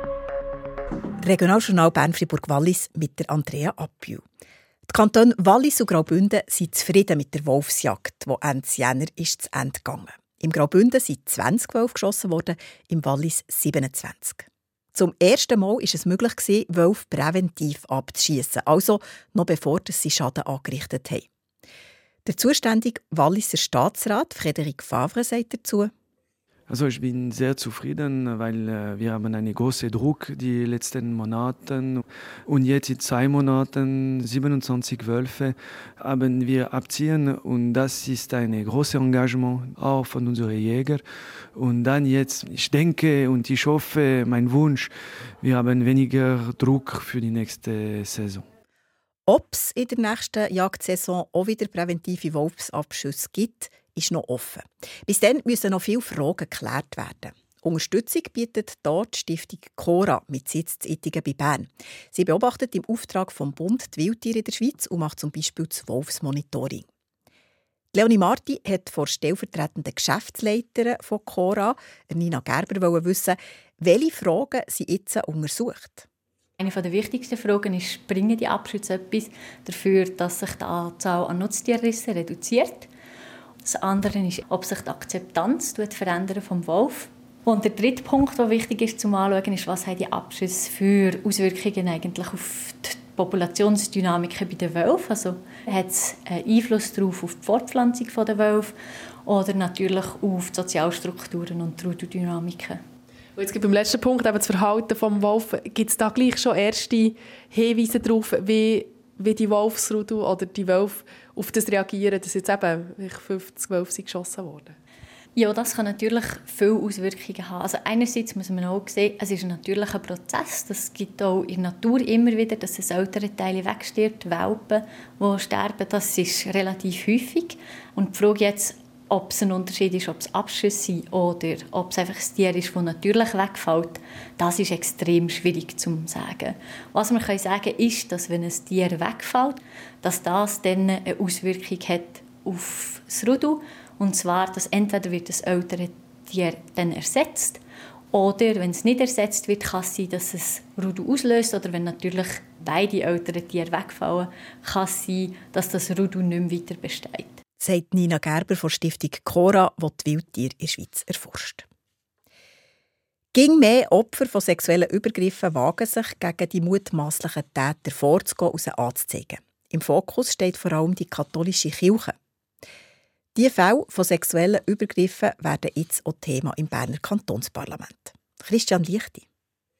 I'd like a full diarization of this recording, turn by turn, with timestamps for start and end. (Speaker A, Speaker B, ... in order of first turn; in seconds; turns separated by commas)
Speaker A: 1.2-4.2, Speaker A: 4.9-21.3, Speaker A: 22.2-25.9, Speaker B: 26.7-41.0, Speaker B: 41.6-44.9, Speaker B: 45.4-48.5, Speaker A: 49.3-66.9, Speaker A: 67.9-76.1, Speaker C: 76.6-82.9, Speaker C: 83.6-98.8, Speaker C: 99.3-102.8, Speaker D: 103.4-114.8, Speaker C: 115.4-147.6, Speaker C: 148.1-157.4, Speaker A: 157.6-161.7, Speaker A: 163.3-172.2, Speaker A: 173.3-179.2